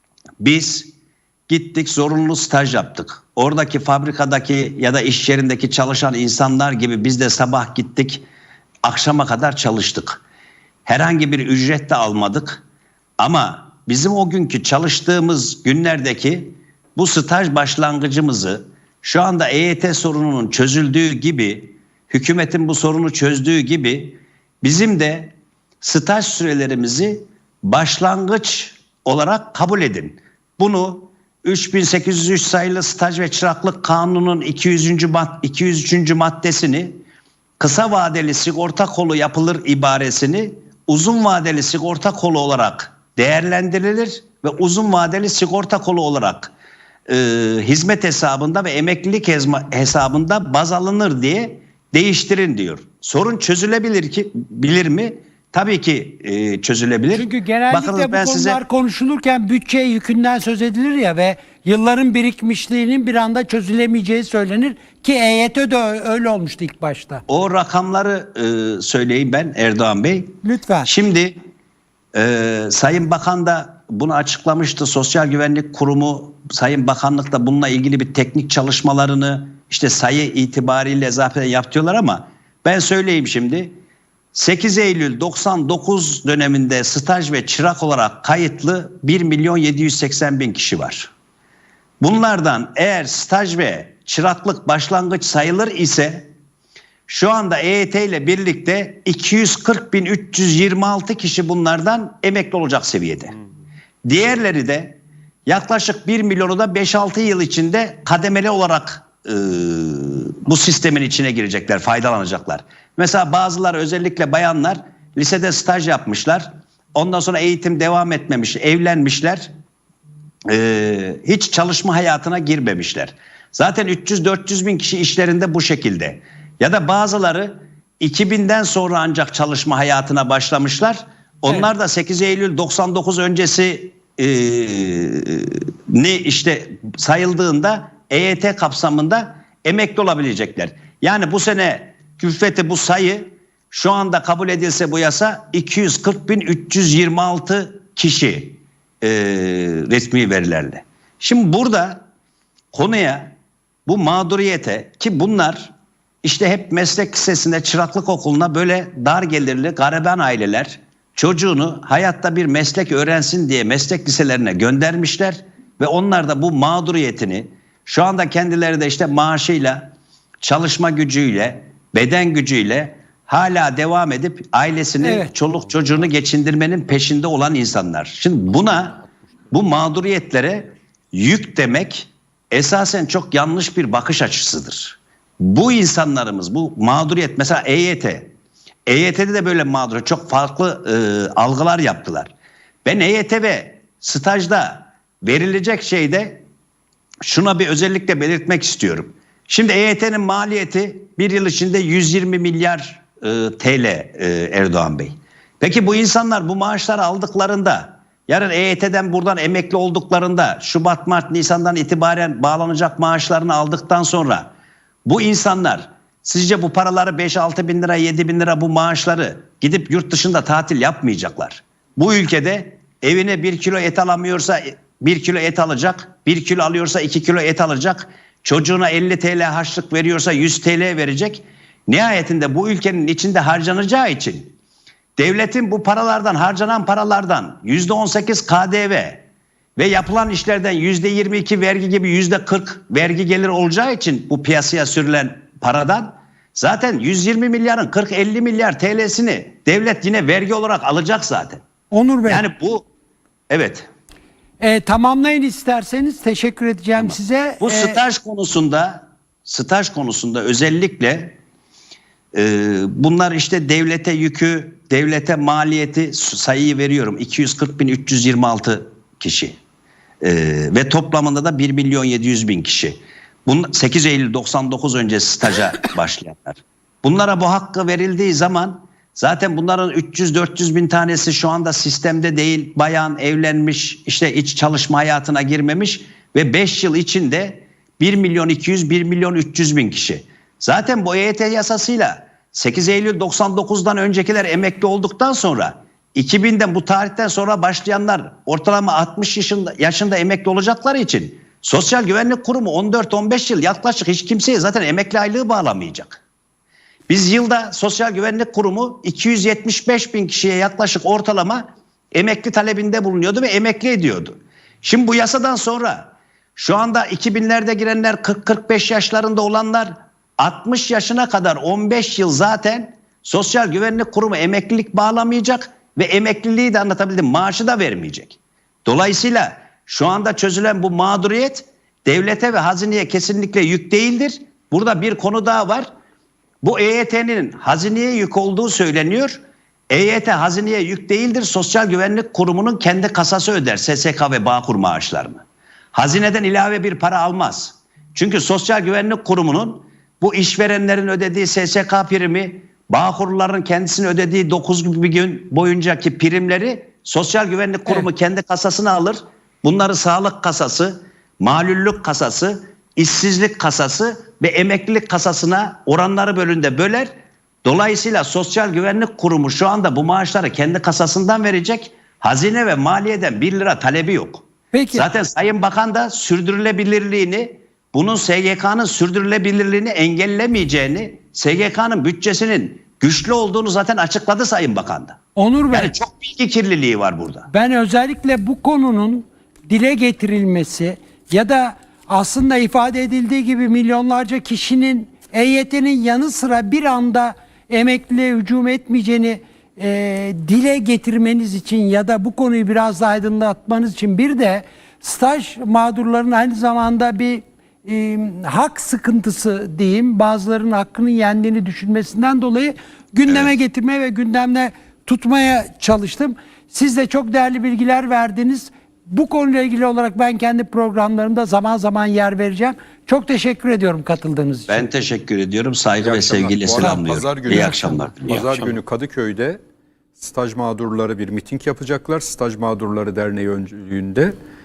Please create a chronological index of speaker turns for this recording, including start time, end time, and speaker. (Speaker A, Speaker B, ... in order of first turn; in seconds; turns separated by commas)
Speaker A: 0.4-0.9, Speaker A: 1.5-8.2, Speaker A: 8.8-10.2, Speaker A: 10.9-12.6, Speaker A: 13.2-37.0, Speaker A: 37.6-46.5, Speaker A: 47.1-58.6, Speaker B: 57.1-67.2, Speaker A: 67.3-71.4, Speaker B: 70.4-70.9, Speaker A: 72.1-83.7, Speaker A: 84.3-91.1, Speaker A: 92.0-96.3, Speaker A: 97.1-103.3, Speaker A: 104.0-119.5, Speaker A: 120.5-152.0, Speaker A: 152.7-155.7, Speaker A: 156.2-188.3, Speaker B: 175.0-175.3, Speaker A: 188.9-192.3, Speaker A: 192.8-196.4, Speaker A: 197.2-214.5, Speaker A: 215.1-234.6, Speaker A: 235.2-239.2, Speaker A: 239.8-251.6, Speaker B: 251.9-252.4, Speaker A: 252.3-252.9, Speaker A: 253.5-253.9, Speaker B: 254.6-258.0, Speaker A: 257.0-261.4, Speaker A: 262.3-269.6, Speaker A: 270.2-306.2, Speaker A: 307.1-335.9, Speaker A: 336.6-345.4, Speaker A: 345.9-367.1, Speaker A: 367.6-385.2, Speaker B: 374.7-375.1, Speaker B: 385.4-385.9, Speaker A: 385.7-387.5, Speaker B: 387.5-424.9, Speaker A: 424.7-428.5, Speaker C: 426.0-429.6, Speaker B: 427.5-427.8, Speaker C: 430.2-434.3